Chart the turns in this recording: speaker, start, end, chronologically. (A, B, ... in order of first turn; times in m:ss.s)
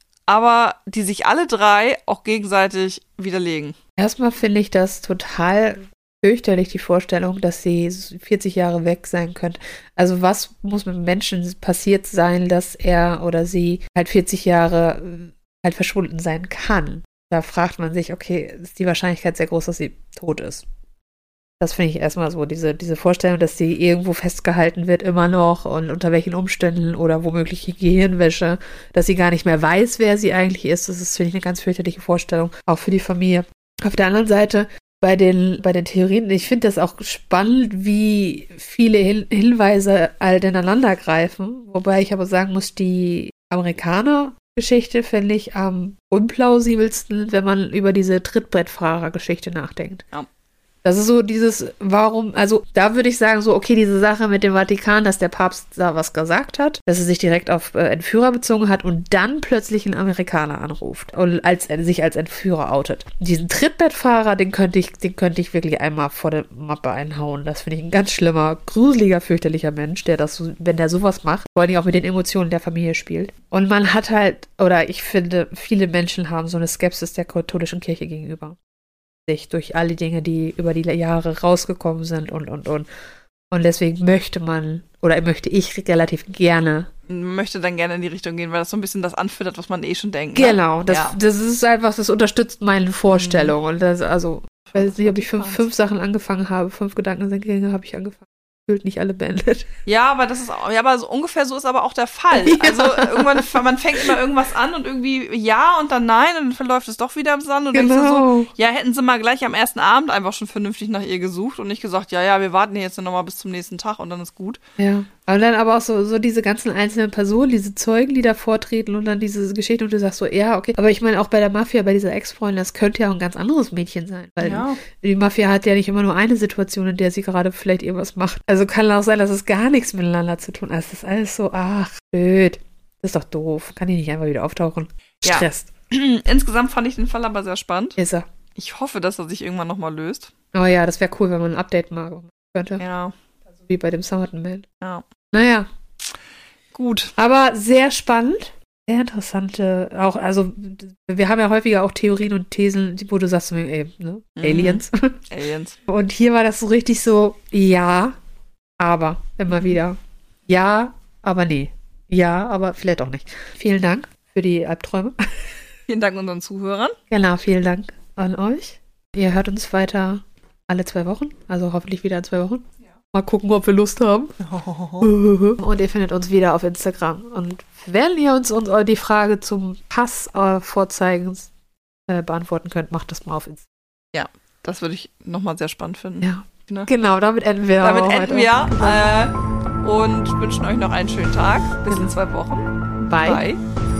0:00.3-0:03.8 A
0:04.0-0:20.6 B
0:21.6-0:50.0 B
0:50.8-1:18.6 B
1:19.2-1:22.9 B
1:23.5-1:26.9 B
1:27.1-1:31.2 A
1:30.3-1:39.7 B
1:33.1-1:33.6 A
1:34.6-1:35.7 A
1:39.8-1:54.6 A
1:42.3-1:44.2 B
1:47.7-1:48.5 B
1:54.8-2:15.7 B
2:04.4-2:04.8 A
2:15.2-2:18.0 A
2:18.0-2:18.2 B
2:18.5-2:20.3 A
2:20.5-2:22.8 B
2:22.8-2:23.1 A
2:23.6-2:24.6 B
2:25.3-2:25.7 B
2:26.7-2:27.1 A
2:27.2-2:35.2 B
2:34.4-2:35.8 A
2:35.9-2:38.2 B
2:38.8-2:45.2 B
2:39.5-2:39.8 A
2:45.9-2:47.0 A
2:47.1-2:54.3 B
2:54.4-2:55.1 A
2:55.0-3:01.5 B
3:02.1-3:03.6 B
3:04.1-3:06.9 A
3:06.2-3:09.1 B
3:07.8-3:13.6 A
3:11.9-3:12.1 B
3:13.0-3:13.4 B